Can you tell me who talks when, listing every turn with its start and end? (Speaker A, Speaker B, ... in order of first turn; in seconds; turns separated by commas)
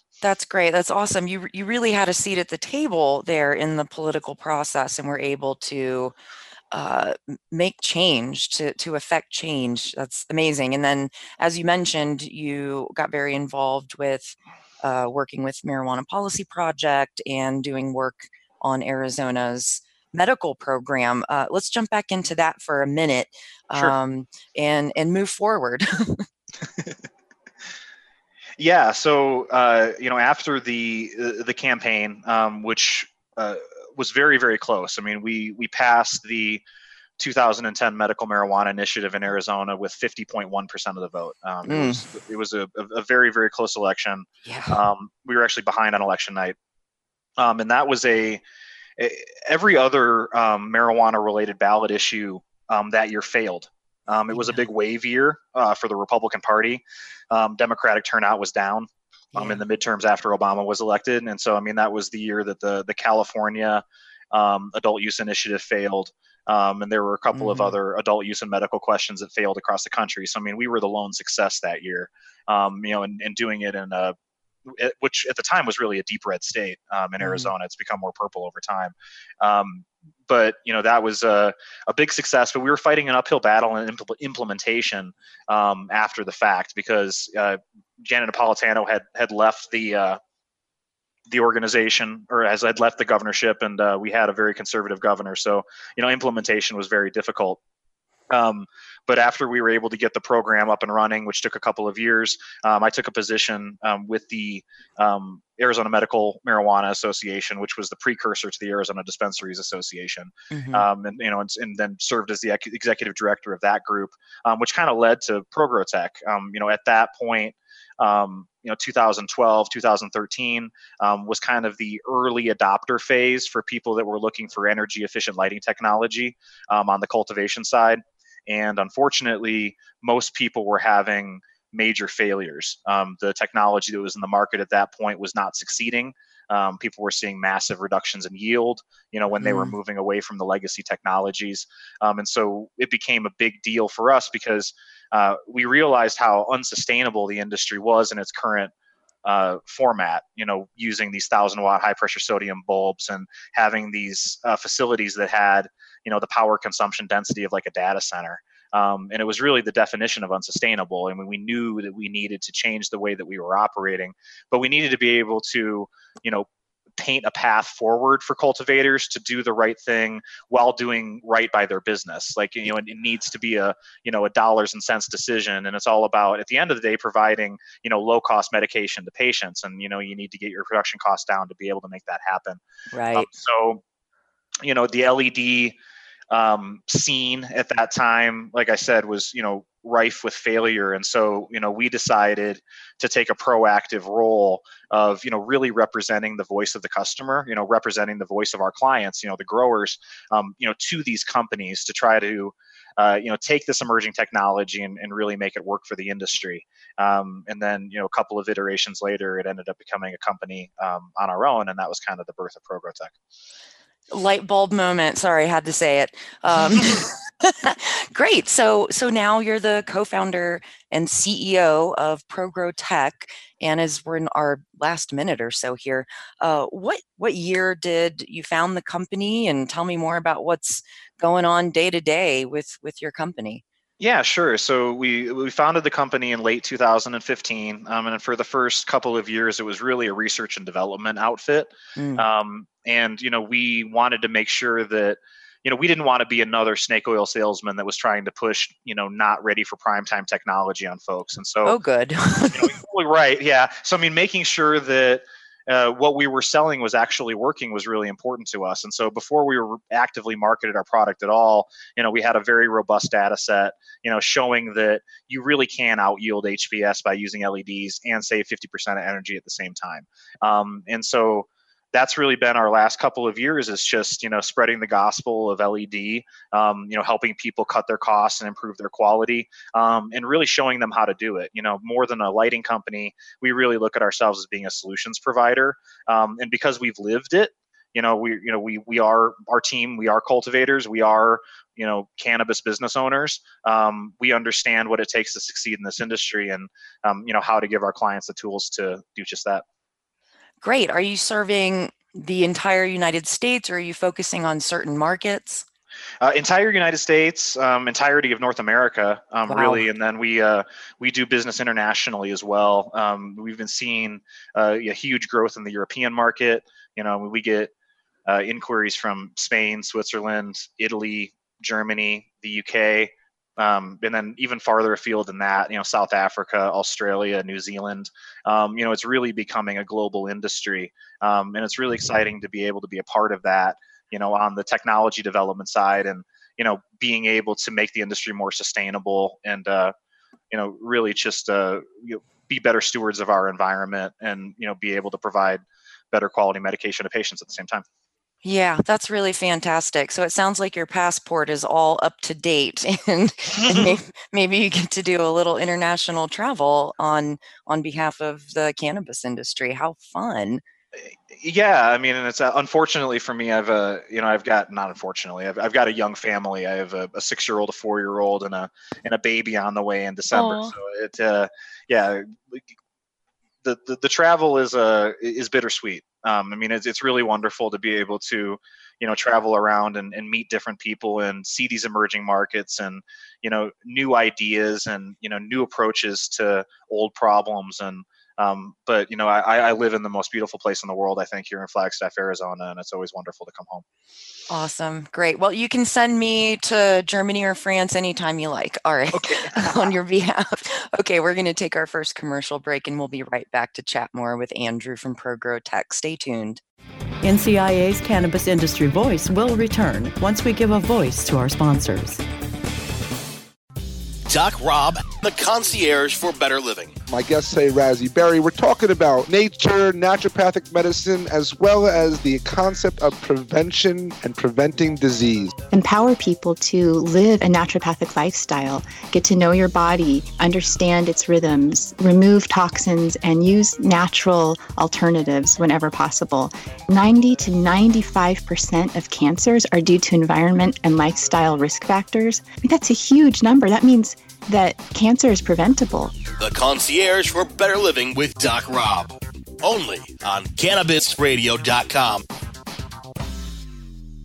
Speaker A: 0.2-6.1, Speaker A: 6.7-26.2, Speaker B: 28.6-36.6, Speaker B: 37.2-46.6, Speaker A: 41.7-42.0, Speaker A: 44.5-44.8, Speaker B: 47.4-48.4, Speaker B: 49.0-74.2, Speaker A: 54.3-54.6, Speaker A: 59.4-59.6, Speaker A: 67.3-67.8, Speaker B: 74.7-90.2, Speaker A: 77.2-77.5, Speaker B: 91.3-97.6, Speaker B: 98.3-148.7, Speaker A: 110.5-110.9, Speaker A: 139.4-139.8, Speaker B: 149.2-182.6, Speaker A: 182.9-183.3, Speaker B: 183.1-183.8, Speaker B: 184.6-185.8, Speaker B: 186.3-213.2, Speaker A: 214.1-233.6, Speaker B: 216.6-217.0, Speaker B: 234.0-251.8, Speaker A: 242.0-242.2, Speaker A: 251.7-252.7, Speaker B: 252.5-299.6, Speaker A: 300.6-305.6, Speaker B: 306.2-317.7, Speaker A: 309.5-309.9, Speaker B: 318.3-339.9, Speaker B: 340.5-347.9, Speaker A: 348.4-360.6, Speaker B: 353.6-354.0, Speaker B: 361.0-372.7, Speaker A: 370.4-370.7, Speaker B: 373.6-393.8, Speaker A: 394.5-406.6, Speaker B: 399.1-399.9, Speaker C: 407.2-412.2, Speaker D: 414.3-417.0, Speaker E: 417.1-425.6, Speaker F: 425.7-446.2, Speaker D: 446.4-452.2